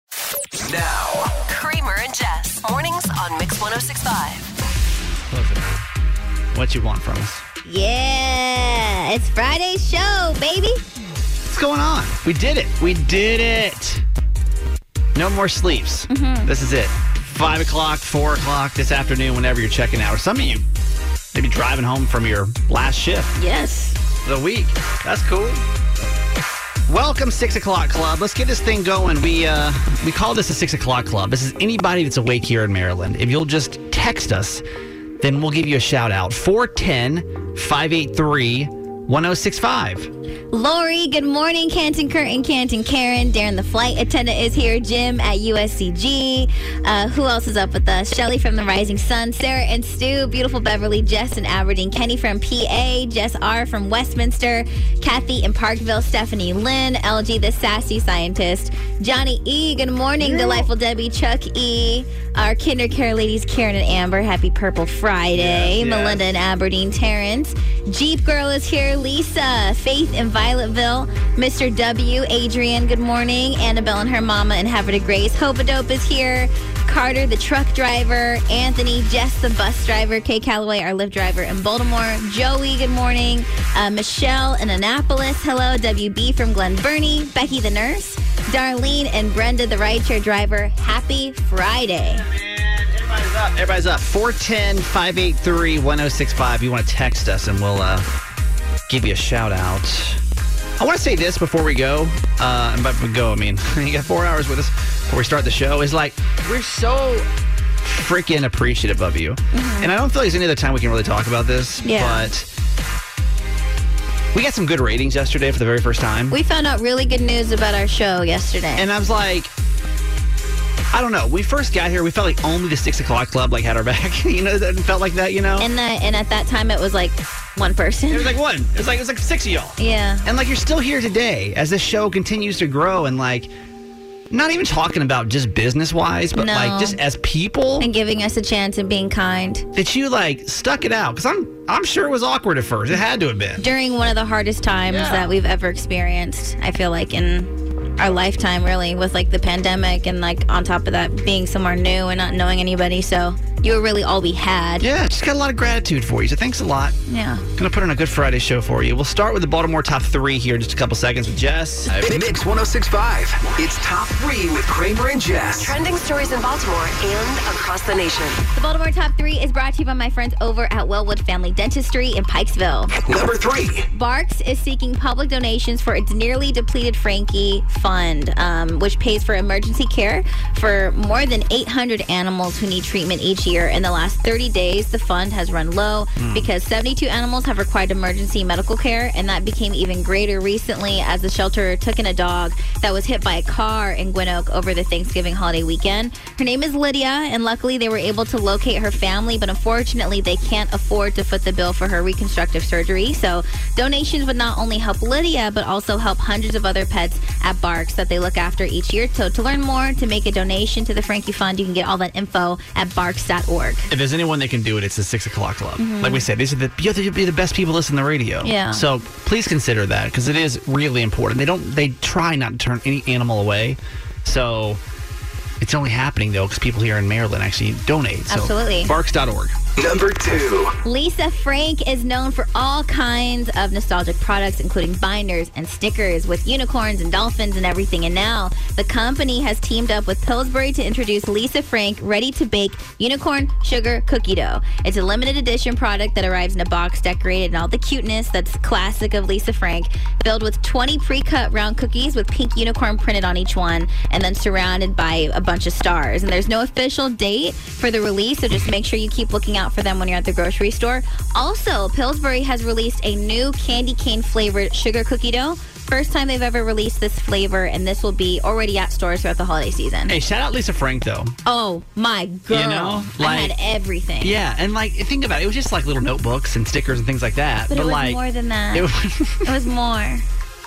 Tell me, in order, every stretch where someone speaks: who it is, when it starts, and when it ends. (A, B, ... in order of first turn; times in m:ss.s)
0:00.6-0:01.3 A
0:01.5-0:04.5 B
0:05.3-0:05.7 C
0:06.5-0:07.4 C
0:07.6-0:10.8 D
0:11.5-0:14.0 C
0:15.1-0:20.6 C
0:16.1-0:16.5 D
0:21.3-0:23.3 C
0:23.4-0:24.0 D
0:24.2-0:25.6 C
0:26.9-0:34.6 C
0:35.2-0:40.1 C
0:40.5-1:32.2 D
1:00.2-1:00.7 C
1:05.4-1:06.2 C
1:32.0-1:38.1 C
1:38.9-1:40.2 C
1:40.8-1:47.3 C
1:47.8-1:52.5 C
1:49.5-1:49.9 D
1:51.8-1:52.3 D
1:54.3-1:56.4 C
1:56.3-1:58.9 D
1:58.8-1:59.5 C
2:00.9-2:05.7 C
2:05.6-2:08.3 D
2:08.1-2:13.5 C
2:09.8-2:10.2 D
2:14.3-2:17.9 C
2:16.4-2:17.0 D
2:17.8-2:19.7 D
2:19.7-2:23.6 C
2:23.6-2:34.9 D
2:24.9-2:25.4 C
2:34.8-2:37.0 C
2:37.1-2:37.4 D
2:37.6-2:42.2 C
2:41.9-2:45.7 A
2:45.6-2:48.4 B
2:48.5-2:52.9 D
2:53.1-2:53.9 A
2:53.9-3:33.9 D
3:06.2-3:06.5 C
3:33.9-3:44.8 C
3:35.8-3:36.2 D
3:38.4-3:38.8 D
3:45.6-3:49.5 C
3:48.3-3:48.9 D
3:49.8-3:50.7 A
3:50.8-4:30.1 D
4:30.1-4:31.3 C
4:31.4-4:34.4 D
4:32.5-4:33.5 C
4:34.2-4:38.2 C
4:37.7-4:38.9 D
4:38.7-4:39.5 C
4:39.4-4:40.2 D